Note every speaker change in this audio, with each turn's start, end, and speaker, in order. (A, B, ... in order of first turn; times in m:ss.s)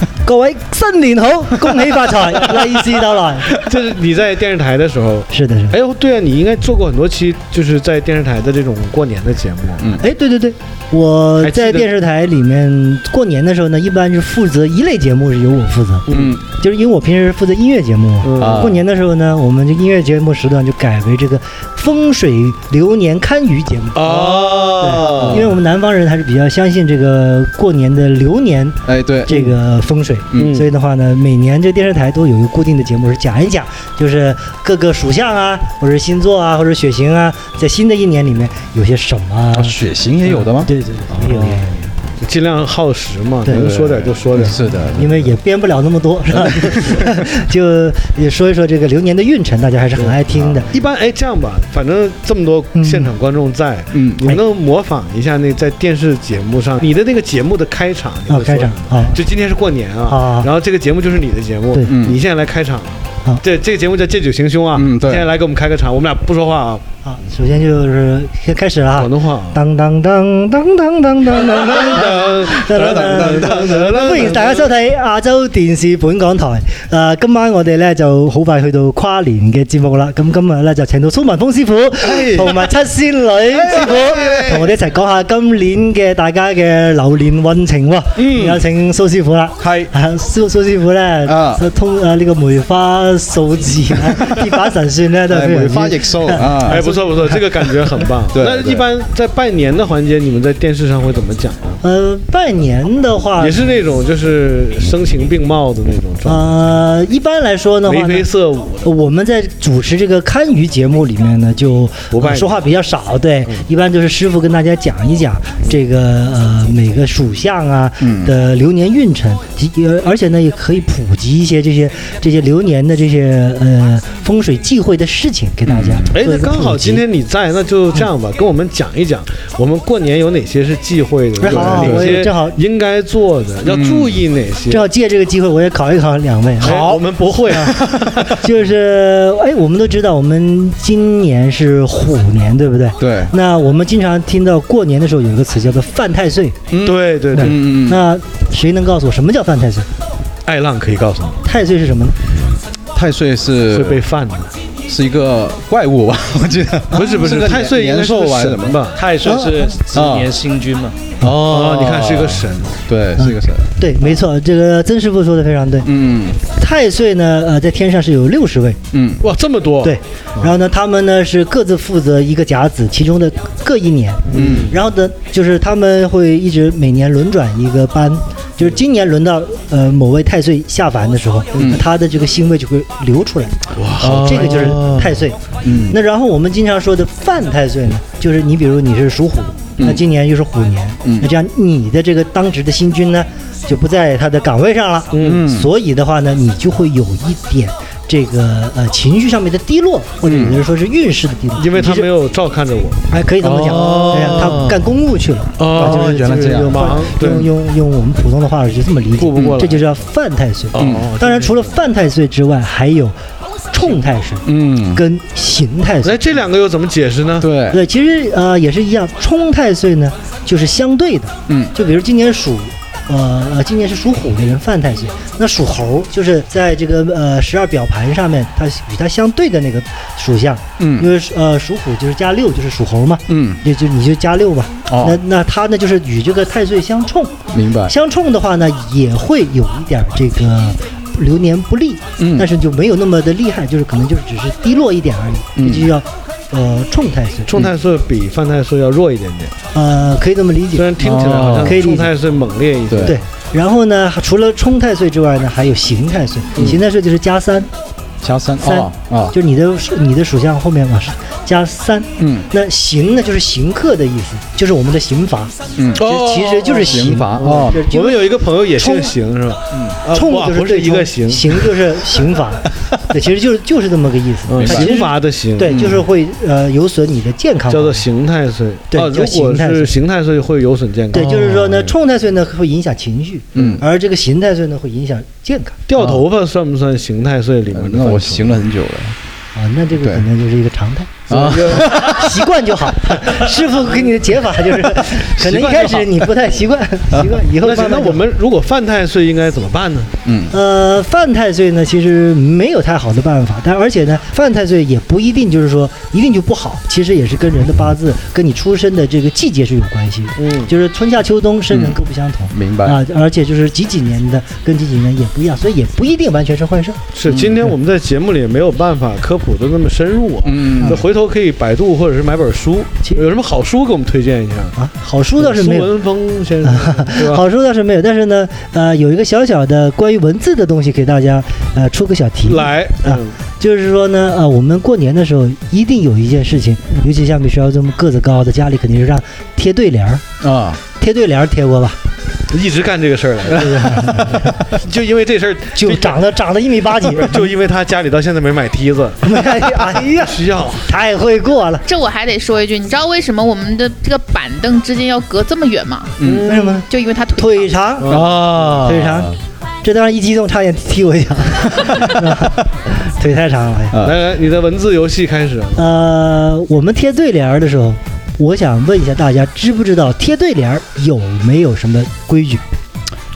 0:00.2-0:03.6 A
0:03.6-0:10.0 B
0:05.3-0:05.8 A
0:10.0-0:39.8 A
0:11.4-0:11.9 B
0:16.1-0:16.4 B
0:16.1-0:16.4 C
0:18.2-0:18.7 B
0:18.4-0:18.8 C
0:23.9-0:25.5 B
0:24.2-0:25.5 C
0:28.8-0:29.5 C
0:30.3-0:30.6 C
0:30.4-0:30.7 B
0:39.5-0:41.5 C
0:40.5-0:41.8 A
0:41.2-0:44.6 B
0:43.5-0:45.4 C
0:44.6-0:50.7 A
0:46.3-0:47.1 C
0:50.0-1:06.8 B
0:52.7-0:53.1 A
0:53.9-0:54.2 C
0:58.3-0:59.2 A
1:00.1-1:00.5 A
1:01.8-1:02.2 C
1:04.7-1:05.3 C
1:07.0-1:37.4 A
1:08.9-1:09.6 B
1:11.4-1:14.7 B
1:12.6-1:13.7 C
1:22.0-1:22.6 C
1:23.5-1:24.7 C
1:23.8-1:24.6 B
1:28.2-1:28.6 C
1:29.6-1:29.9 C
1:31.2-1:31.6 C
1:35.3-1:36.9 C
1:36.6-1:41.8 B
1:38.3-1:38.8 C
1:41.8-1:43.8 A
1:43.4-1:46.8 B
1:46.2-1:48.3 A
1:47.8-1:48.9 B
1:48.8-2:07.0 A
1:52.1-1:52.6 B
2:05.6-2:06.1 C
2:06.1-2:14.9 B
2:11.4-2:12.6 A
2:11.4-2:12.2 C
2:13.6-2:14.2 C
2:14.7-2:16.9 A
2:16.6-2:18.4 B
2:16.6-2:18.3 C
2:17.4-2:17.8 A
2:18.4-2:26.6 A
2:23.0-2:23.3 C
2:26.7-2:28.0 C
2:26.8-2:27.6 B
2:27.3-2:29.9 A
2:30.4-2:31.4 B
2:31.4-2:32.2 A
2:32.9-2:34.0 C
2:33.7-2:34.5 B
2:34.9-2:38.8 C
2:36.9-2:39.0 B
2:37.0-2:37.2 A
2:38.9-2:41.0 D
2:39.2-2:39.8 A
2:39.9-2:40.3 C
2:41.2-2:44.1 C
2:41.4-2:42.8 B
2:43.2-2:45.9 A
2:45.8-2:46.4 C
2:46.4-2:48.8 A
2:48.9-2:49.2 C
2:49.2-2:50.5 B
2:49.8-3:22.1 A
2:54.3-2:54.8 B
2:54.3-2:54.7 C
3:03.8-3:04.8 B
3:04.0-3:06.0 C
3:15.1-3:15.4 B
3:15.2-3:15.7 C
3:20.2-3:20.6 C
3:21.5-3:24.6 B
3:23.1-3:33.2 A
3:23.6-3:24.8 C
3:25.6-3:27.5 B
3:25.7-3:27.1 C
3:29.2-3:30.0 B
3:30.7-3:31.8 B
3:30.8-3:31.1 C
3:33.7-3:36.4 A
3:34.4-3:35.0 C
3:36.0-3:37.5 B
3:37.4-3:37.8 C
3:37.7-4:07.5 A
3:41.5-3:41.7 C
3:50.8-3:51.1 C
3:53.3-3:53.6 C
3:54.9-3:55.2 C
3:57.5-3:58.0 C
4:02.2-4:02.5 C
4:05.6-4:05.9 C
4:07.5-4:09.6 B
4:09.7-4:12.1 A
4:10.7-4:13.2 B
4:11.0-4:11.8 C
4:12.9-4:13.2 C
4:13.0-4:17.7 A
4:16.5-4:16.8 B
4:18.2-4:19.3 C
4:18.6-4:29.1 A
4:22.2-4:22.4 C
4:25.8-4:27.8 C
4:26.6-4:31.8 B
4:30.1-4:38.0 A
4:34.5-4:36.0 B
4:34.6-4:34.9 C
4:35.7-4:36.0 C
4:37.7-4:41.9 B
4:38.9-4:40.0 A
4:41.1-4:45.8 A
4:41.1-4:41.8 C
4:43.6-4:43.8 C
4:45.9-4:48.6 B
4:46.0-4:46.2 C
4:47.7-4:49.2 C
4:49.5-4:58.2 A
4:50.0-4:50.2 C
4:51.3-4:52.3 C
4:51.3-4:52.1 B
4:53.9-4:54.3 B
4:55.2-4:56.0 C
4:55.4-4:56.4 B
4:57.1-4:57.4 C
4:57.6-5:00.1 B
5:00.2-5:00.5 C
5:00.5-5:17.0 A
5:10.4-5:10.7 B
5:11.7-5:12.0 C
5:12.5-5:13.0 C
5:17.1-5:24.8 B
5:17.3-5:17.6 C
5:20.4-5:21.0 C
5:24.8-5:25.9 A
5:25.4-5:27.4 B
5:26.6-5:40.2 A
5:32.4-5:33.4 B
5:40.4-5:40.8 C
5:41.0-5:42.0 A
5:42.5-5:46.2 B
5:43.5-5:44.6 A
5:45.7-5:47.5 A
5:47.0-5:50.9 B
5:49.2-5:51.8 A
5:51.9-5:56.1 E
5:56.2-5:56.8 B
5:56.4-5:58.2 A
5:56.9-5:57.7 E
5:58.0-5:58.8 B
5:58.1-5:59.4 C
5:58.8-6:04.0 A
6:03.9-6:04.2 C
6:04.0-6:05.9 B
6:05.8-6:12.6 A